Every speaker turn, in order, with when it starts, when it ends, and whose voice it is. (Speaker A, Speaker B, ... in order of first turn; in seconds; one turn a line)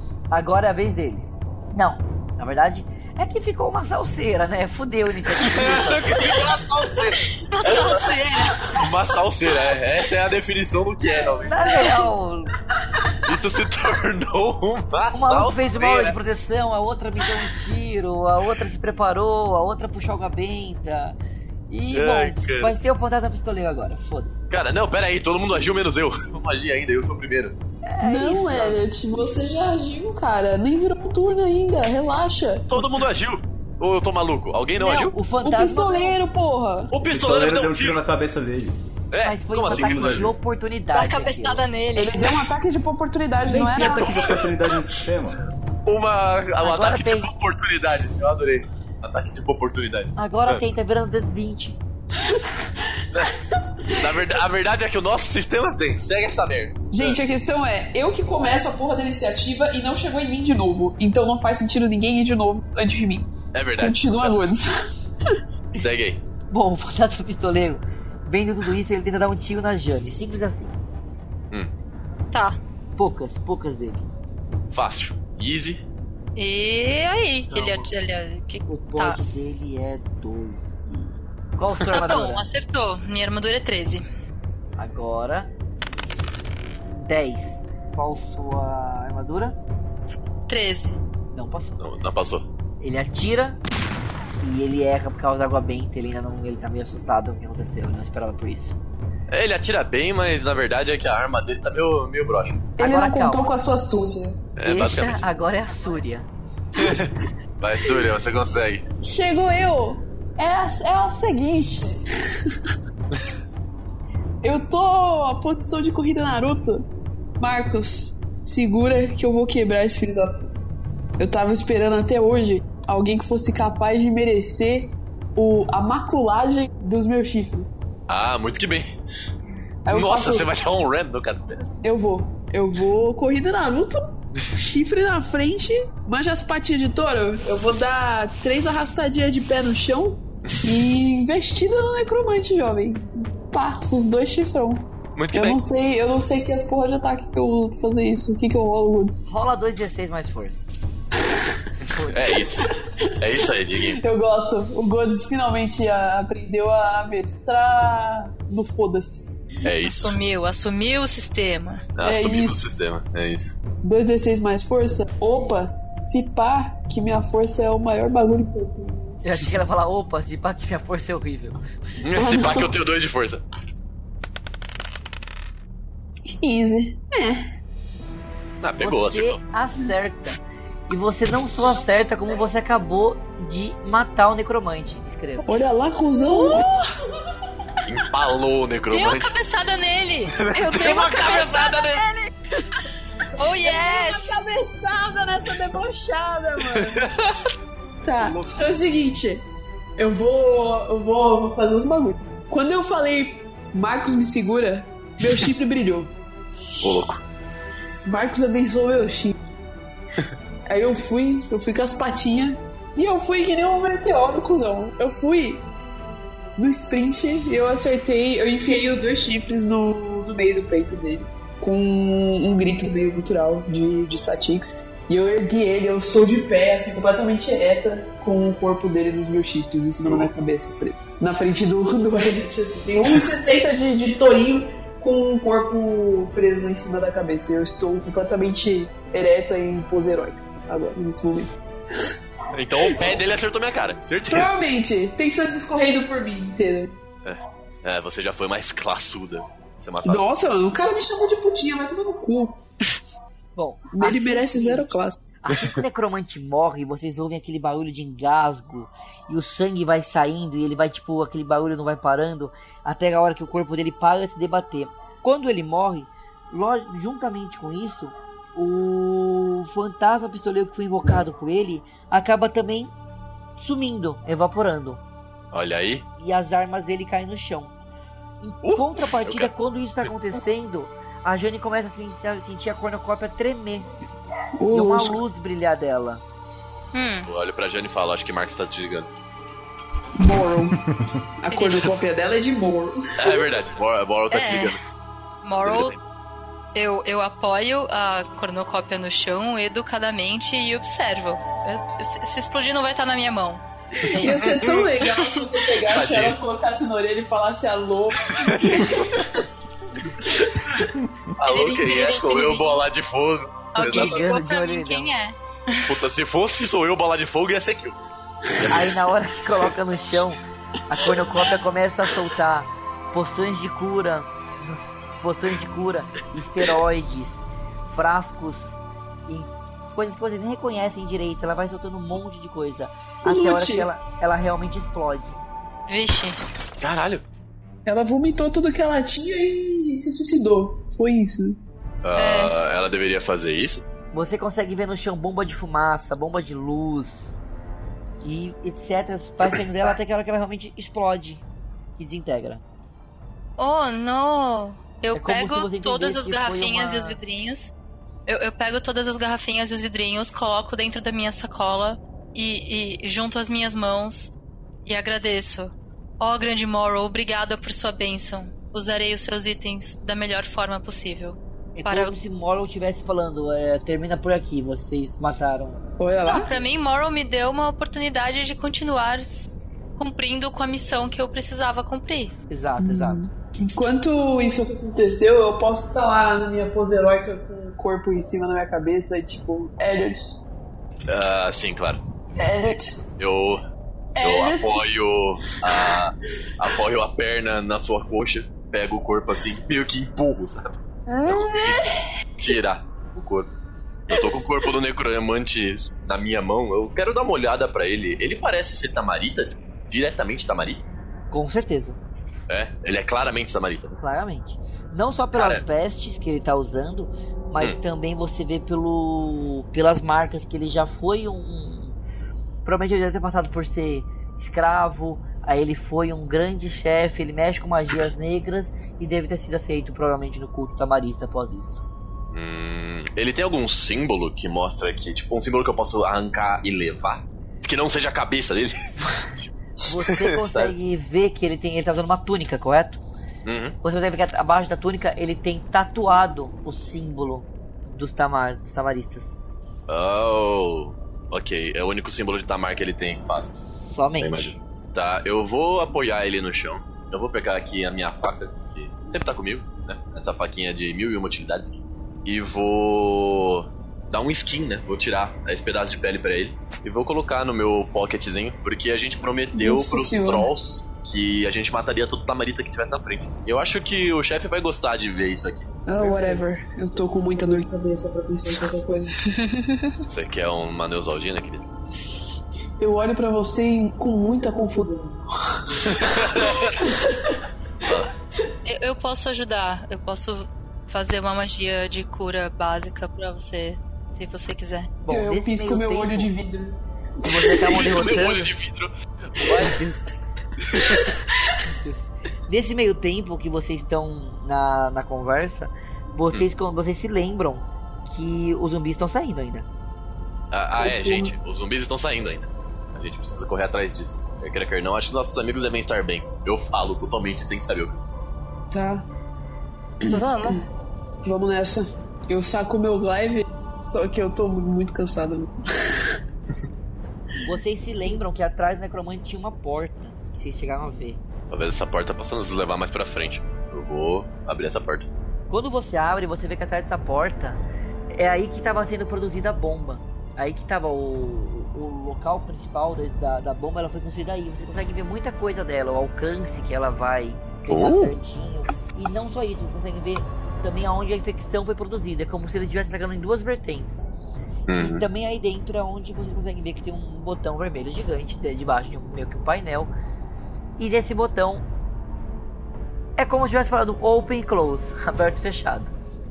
Speaker A: 0.3-6.3
Speaker B: 5.4-8.1
Speaker C: 7.5-8.6
Speaker B: 8.7-11.9
Speaker A: 11.5-12.5
Speaker B: 13.2-16.2
Speaker A: 15.1-21.2
Speaker A: 21.7-24.4
Speaker B: 21.9-22.7
Speaker B: 24.5-27.6
Speaker A: 27.9-28.8
Speaker D: 28.0-33.0
Speaker B: 32.7-35.1
Speaker A: 34.8-36.2
Speaker D: 35.4-36.9
Speaker B: 36.9-38.0
Speaker E: 37.0-38.8
Speaker B: 39.1-40.3
Speaker A: 39.2-41.6
Speaker E: 39.7-40.2
Speaker C: 40.9-42.2
Speaker D: 42.0-44.1
Speaker E: 43.4-45.4
Speaker B: 43.7-44.8
Speaker B: 45.9-50.6
Speaker A: 46.6-47.3
Speaker A: 50.1-51.8
Speaker D: 52.3-52.6
Speaker B: 53.9-57.2
Speaker D: 56.9-64.7
Speaker B: 63.5-64.4
Speaker B: 65.7-66.2
Speaker A: 66.5-70.8
Speaker C: 72.3-72.6
Speaker A: 73.0-74.1
Speaker B: 74.7-75.8
Speaker C: 76.3-79.2
Speaker A: 77.5-77.9
Speaker A: 78.7-82.4
Speaker B: 81.8-82.1
Speaker C: 82.0-84.0
Speaker A: 84.8-85.5
Speaker A: 87.0-89.6
Speaker C: 90.5-91.0
Speaker A: 91.3-91.8
Speaker B: 91.8-92.5
Speaker A: 92.8-93.6
Speaker A: 94.4-98.8
Speaker B: 99.3-102.7
Speaker D: 102.8-104.4
Speaker A: 102.8-103.5
Speaker B: 104.5-105.2
Speaker A: 104.6-106.3
Speaker B: 106.8-108.9
Speaker D: 109.0-112.5
Speaker D: 114.4-116.8
Speaker D: 117.4-120.5
Speaker D: 121.2-127.7
Speaker B: 128.1-128.8
Speaker D: 129.8-130.5
Speaker B: 129.9-131.7
Speaker D: 131.8-149.2
Speaker B: 140.5-140.9
Speaker B: 145.2-145.6
Speaker A: 149.2-150.7
Speaker A: 151.9-152.2
Speaker B: 152.1-152.7
Speaker D: 152.6-159.3
Speaker B: 153.2-154.0
Speaker B: 159.6-160.2
Speaker C: 159.8-161.9
Speaker B: 161.9-163.6
Speaker D: 162.0-162.7
Speaker D: 163.8-169.2
Speaker A: 165.3-165.7
Speaker A: 169.2-171.6
Speaker B: 172.0-173.4
Speaker D: 172.2-172.7
Speaker D: 176.3-177.4
Speaker B: 178.6-179.4
Speaker A: 178.8-185.6
Speaker D: 185.4-186.9
Speaker C: 186.3-186.6
Speaker B: 187.8-189.3
Speaker C: 188.9-192.1
Speaker B: 190.3-192.0
Speaker C: 193.4-194.4
Speaker D: 193.5-197.0
Speaker B: 196.6-197.3
Speaker D: 198.0-199.4
Speaker B: 198.2-198.6
Speaker D: 200.0-206.1
Speaker B: 206.8-207.2
Speaker D: 208.0-209.4
Speaker D: 210.7-215.6
Speaker D: 216.6-241.5
Speaker B: 230.0-230.3
Speaker B: 242.5-244.5
Speaker D: 242.8-243.2
Speaker D: 244.3-246.9
Speaker B: 247.2-250.3
Speaker D: 250.0-252.7
Speaker A: 253.6-254.9
Speaker D: 253.9-255.2
Speaker A: 255.4-272.9
Speaker A: 273.6-275.0
Speaker B: 275.5-276.0
Speaker A: 276.2-277.7
Speaker A: 278.4-283.9
Speaker B: 278.6-279.5
Speaker D: 284.6-285.2
Speaker A: 284.7-286.2
Speaker C: 286.9-287.3
Speaker B: 287.2-289.1
Speaker D: 290.1-290.8
Speaker D: 291.4-293.4
Speaker C: 291.5-291.9
Speaker B: 293.2-294.8
Speaker C: 294.3-294.8
Speaker C: 295.4-295.9
Speaker B: 295.6-296.0
Speaker C: 296.7-303.6
Speaker D: 304.0-309.5
Speaker B: 304.1-304.9
Speaker C: 305.1-305.4
Speaker B: 305.8-306.4
Speaker B: 308.2-309.1
Speaker B: 310.3-310.9
Speaker B: 311.4-314.3
Speaker C: 311.4-312.8
Speaker C: 313.7-315.9
Speaker A: 313.8-315.1
Speaker B: 315.9-318.0
Speaker B: 318.5-319.0
Speaker A: 318.7-335.4
Speaker D: 333.2-333.9
Speaker C: 335.9-336.4
Speaker B: 336.8-337.2
Speaker D: 337.9-341.6
Speaker B: 342.0-343.8
Speaker C: 342.1-342.5
Speaker A: 344.1-347.4
Speaker A: 348.2-351.4
Speaker A: 352.0-352.6
Speaker C: 353.6-357.7
Speaker A: 355.1-357.2
Speaker C: 358.3-364.3
Speaker C: 364.8-372.1
Speaker A: 371.8-375.8
Speaker D: 376.0-376.5
Speaker C: 376.3-382.3
Speaker A: 382.5-383.2
Speaker D: 382.8-390.4
Speaker B: 391.1-392.0
Speaker D: 392.3-393.1
Speaker B: 393.1-393.6
Speaker D: 394.1-394.9
Speaker B: 394.2-401.8
Speaker D: 395.5-396.0
Speaker D: 401.1-402.5
Speaker B: 402.4-403.5
Speaker B: 404.1-410.8
Speaker A: 411.3-412.0
Speaker B: 412.5-414.0
Speaker A: 413.9-421.9
Speaker B: 415.3-415.6
Speaker A: 422.6-431.8
Speaker B: 432.3-438.8
Speaker B: 439.4-440.7
Speaker A: 439.8-443.0
Speaker B: 443.4-443.8
Speaker A: 443.8-449.4
Speaker B: 449.9-453.7
Speaker A: 453.8-454.5
Speaker B: 454.2-476.4
Speaker D: 469.5-470.5
Speaker D: 475.9-479.8
Speaker B: 480.1-481.7
Speaker D: 482.8-485.8
Speaker B: 485.8-486.8
Speaker D: 486.8-487.4
Speaker B: 487.8-488.1
Speaker C: 488.6-494.9
Speaker A: 495.0-496.3
Speaker D: 495.1-497.9
Speaker A: 497.2-498.5
Speaker B: 497.7-499.7
Speaker A: 499.5-500.1
Speaker B: 500.7-501.0
Speaker A: 501.6-509.7
Speaker B: 510.5-518.0
Speaker D: 510.8-511.3
Speaker D: 518.7-519.0
Speaker D: 520.0-520.5
Speaker C: 520.0-520.6
Speaker D: 521.2-526.2
Speaker A: 527.4-531.2
Speaker B: 531.5-535.1
Speaker A: 535.5-537.6
Speaker A: 538.1-554.0
Speaker B: 547.7-548.1
Speaker B: 554.7-555.0
Speaker A: 554.8-559.9
Speaker A: 560.8-561.6
Speaker A: 563.2-565.9